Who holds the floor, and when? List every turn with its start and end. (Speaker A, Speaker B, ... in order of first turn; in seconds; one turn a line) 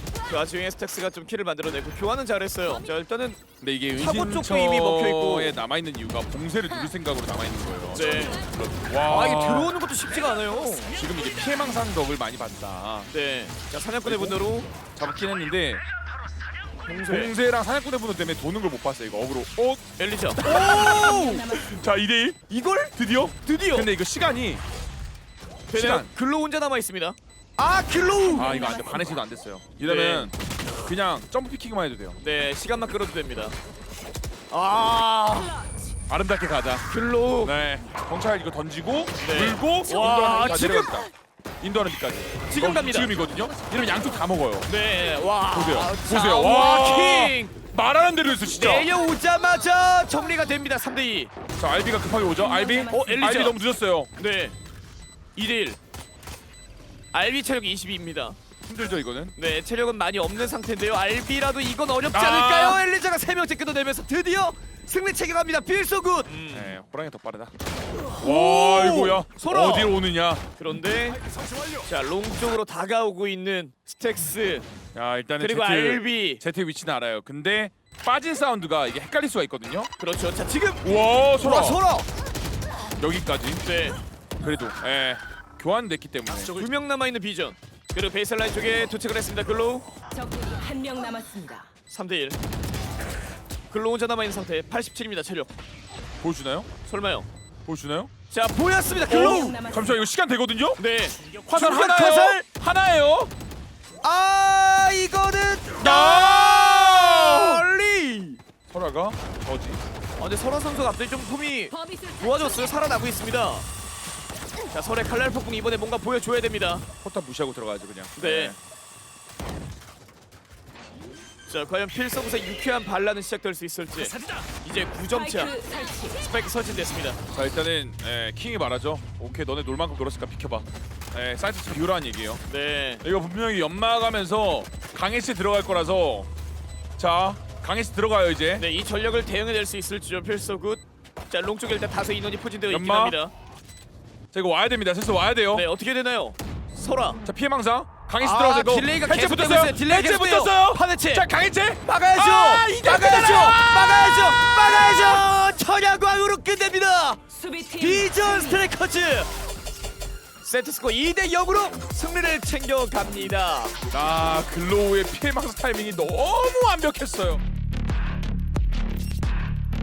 Speaker A: 0.2-3.4
Speaker B: 3.6-9.7
Speaker A: 4.0-5.6
Speaker A: 7.9-8.5
Speaker A: 9.1-10.9
Speaker B: 10.9-13.1
Speaker A: 13.1-14.7
Speaker B: 14.0-14.4
Speaker B: 14.9-15.8
Speaker A: 16.8-17.3
Speaker B: 17.0-19.8
Speaker A: 20.0-21.6
Speaker B: 20.4-24.6
Speaker C: 20.6-21.6
Speaker A: 22.5-23.9
Speaker A: 25.7-28.9
Speaker B: 25.7-26.1
Speaker B: 28.4-30.3
Speaker C: 28.4-29.2
Speaker A: 29.8-30.3
Speaker B: 30.8-32.2
Speaker A: 32.2-33.6
Speaker A: 34.5-35.6
Speaker B: 36.1-36.9
Speaker A: 36.9-37.5
Speaker B: 37.4-44.7
Speaker A: 39.2-40.9
Speaker A: 42.5-43.1
Speaker A: 44.6-47.5
Speaker B: 45.5-48.9
Speaker A: 48.5-51.3
Speaker B: 51.6-54.1
Speaker C: 52.4-53.1
Speaker A: 52.9-53.6
Speaker A: 54.2-54.6
Speaker A: 55.4-55.8
Speaker A: 57.1-58.4
Speaker B: 58.7-59.4
Speaker A: 59.4-66.8
Speaker B: 62.1-62.8
Speaker B: 66.5-67.5
Speaker A: 68.2-70.0
Speaker B: 68.2-70.4
Speaker A: 70.6-71.2
Speaker A: 71.8-74.7
Speaker B: 75.0-79.9
Speaker A: 75.4-76.4
Speaker A: 80.0-82.1
Speaker B: 80.8-81.8
Speaker B: 83.0-83.6
Speaker A: 83.6-84.0
Speaker B: 84.4-86.6
Speaker A: 86.4-89.9
Speaker C: 90.1-91.7
Speaker A: 91.9-92.4
Speaker A: 93.7-95.5
Speaker B: 96.2-96.7
Speaker A: 96.9-97.3
Speaker B: 97.7-98.1
Speaker A: 98.3-99.7
Speaker C: 99.1-99.9
Speaker B: 99.1-103.3
Speaker A: 100.8-102.5
Speaker A: 104.0-108.4
Speaker B: 105.8-107.7
Speaker B: 108.7-109.8
Speaker A: 110.2-113.7
Speaker C: 111.7-112.7
Speaker A: 114.7-116.8
Speaker B: 117.0-118.6
Speaker A: 118.2-118.6
Speaker A: 121.5-127.2
Speaker C: 125.2-126.2
Speaker B: 127.3-132.4
Speaker A: 132.5-133.0
Speaker B: 133.0-136.3
Speaker B: 137.0-138.7
Speaker A: 138.6-143.3
Speaker B: 142.7-143.2
Speaker B: 144.3-145.7
Speaker A: 145.5-147.2
Speaker B: 147.2-155.2
Speaker A: 148.2-151.3
Speaker A: 151.8-159.3
Speaker C: 157.3-158.6
Speaker A: 160.4-163.8
Speaker B: 163.9-167.4